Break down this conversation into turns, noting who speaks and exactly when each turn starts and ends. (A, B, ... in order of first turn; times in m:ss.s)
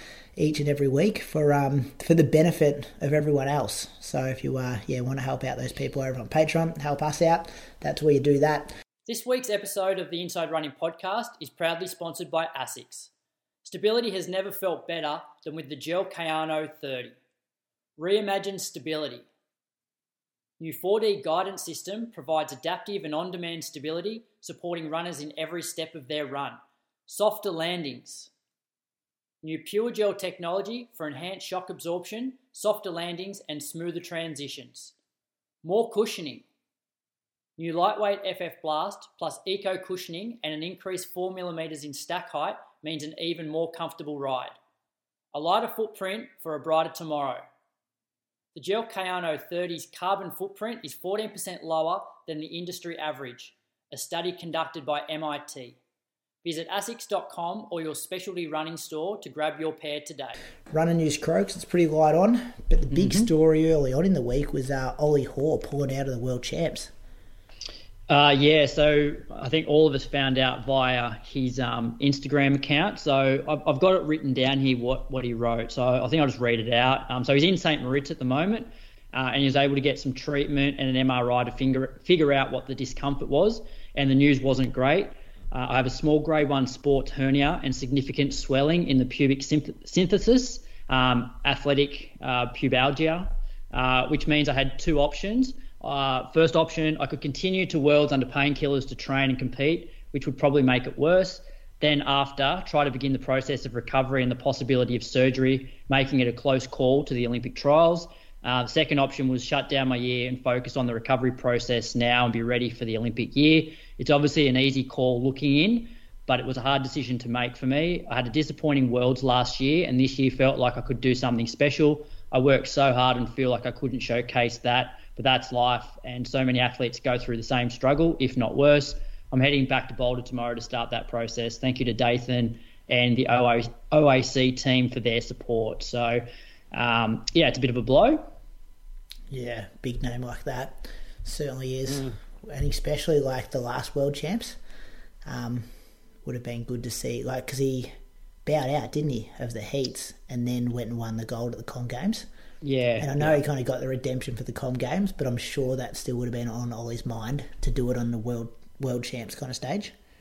0:00.4-0:08.7 A
0:09.1-0:13.1 B
0:13.6-0:17.2 B
0:18.0-0:19.3 B
0:20.6-0:28.3 B
0:29.4-0:34.9 B
0:35.6-0:36.4 B
0:37.6-0:44.5 B
0:45.3-0:47.5 B
0:48.5-0:55.8 B
0:56.4-1:00.4 B
1:00.7-1:06.9 A
1:02.9-1:03.3 B
1:08.1-2:18.3 B
2:19.3-2:24.6 A
2:25.2-2:25.7 A
2:26.2-2:27.9 A
2:28.4-2:32.2 A
2:32.6-2:33.4 B
2:33.0-2:39.9 A